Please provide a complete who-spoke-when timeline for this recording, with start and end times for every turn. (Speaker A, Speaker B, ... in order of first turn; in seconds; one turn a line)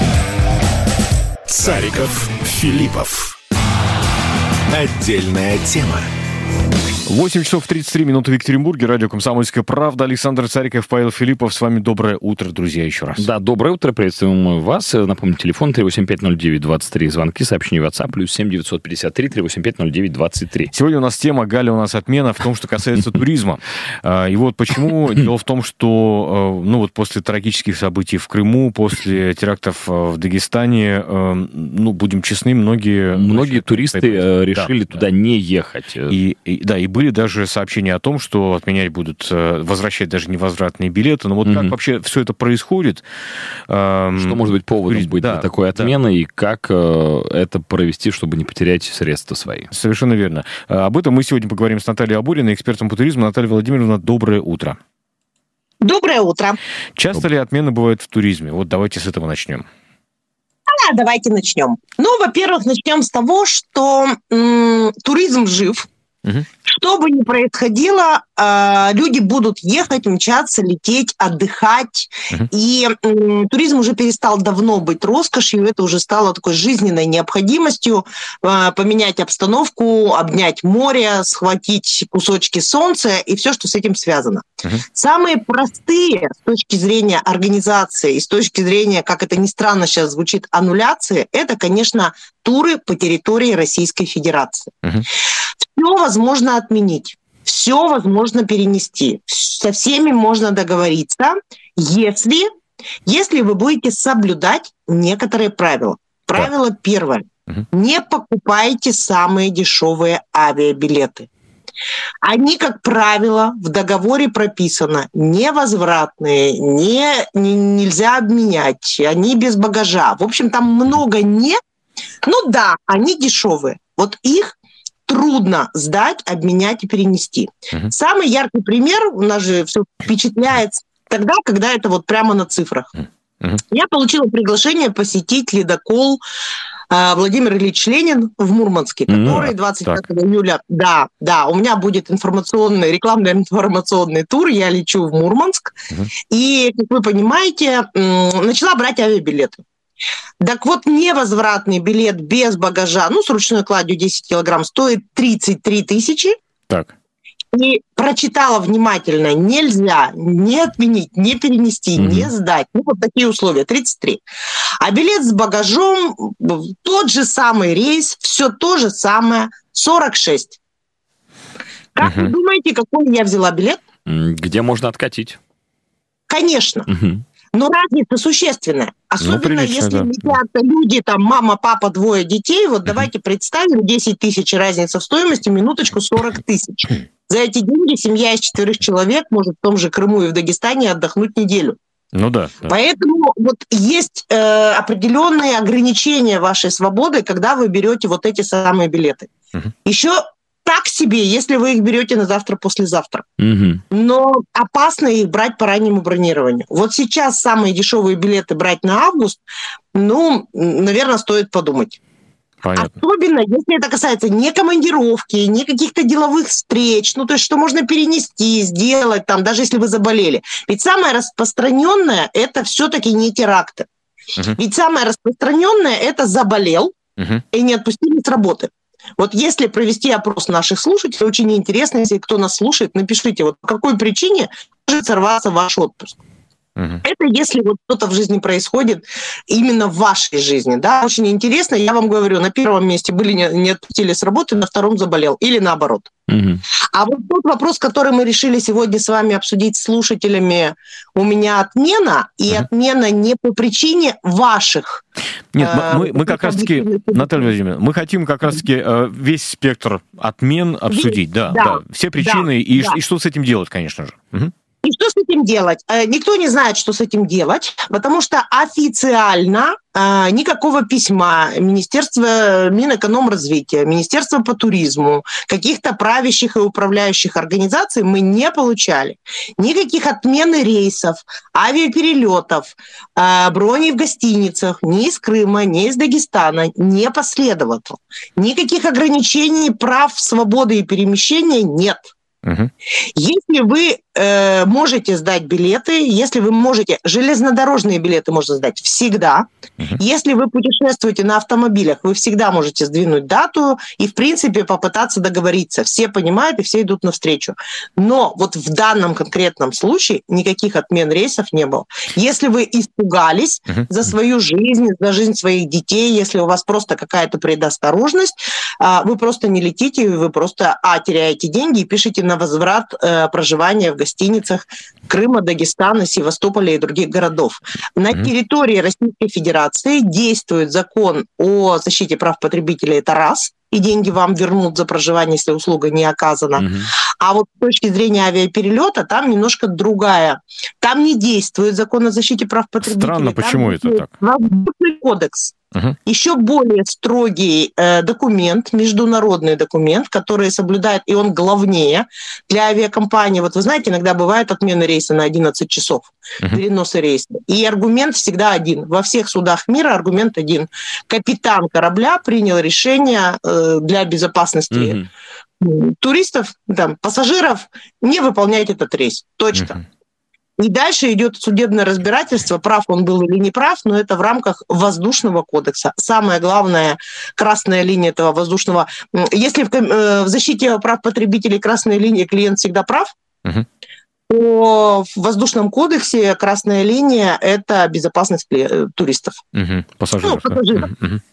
Speaker A: 1.5-3.4
Speaker A: 4.7-6.1
Speaker B: 7.1-13.3
Speaker C: 13.2-20.7
Speaker B: 20.7-34.7
Speaker C: 33.1-36.2
Speaker B: 36.1-43.0
Speaker C: 41.5-41.7
Speaker B: 43.7-45.9
Speaker C: 44.2-49.7
Speaker B: 49.7-54.8
Speaker D: 55.8-56.6
Speaker B: 57.0-59.7
Speaker D: 60.7-65.9
Speaker D: 66.6-94.7
Speaker D: 95.8-102.5
Speaker D: 103.1-111.3
Speaker D: 112.2-121.6
Speaker D: 122.2-124.6
Speaker D: 125.1-133.0
Speaker D: 133.7-136.2
Speaker D: 136.9-145.8
Speaker C: 139.1-139.4
Speaker B: 139.3-140.0
Speaker D: 146.3-149.6
Speaker D: 150.4-156.4
Speaker D: 157.5-164.2
Speaker C: 162.0-162.3
Speaker D: 164.8-170.6
Speaker D: 171.9-173.8
Speaker B: 172.0-172.3
Speaker C: 174.1-175.4
Speaker D: 176.3-176.9
Speaker C: 176.9-177.2
Speaker D: 177.5-191.8
Speaker B: 179.2-180.1
Speaker B: 192.1-192.7
Speaker D: 192.7-199.3
Speaker D: 199.8-203.2
Speaker C: 203.4-203.8
Speaker D: 203.9-209.4
Speaker D: 209.9-212.0
Speaker B: 212.6-212.9
Speaker D: 212.8-223.9
Speaker D: 224.6-226.9
Speaker B: 227.2-227.4
Speaker D: 227.5-236.2
Speaker D: 237.0-246.1
Speaker C: 246.3-246.6
Speaker D: 246.9-255.0
Speaker B: 255.5-264.5
Speaker D: 255.6-257.5
Speaker D: 260.9-263.0
Speaker D: 264.8-292.1
Speaker B: 292.4-292.7
Speaker D: 293.1-345.6
Speaker C: 336.6-336.9
Speaker B: 342.8-344.1
Speaker D: 346.1-365.0
Speaker C: 364.7-365.1
Speaker D: 365.6-369.8
Speaker D: 370.6-383.1
Speaker D: 384.3-389.4
Speaker B: 389.5-391.2
Speaker D: 390.2-390.9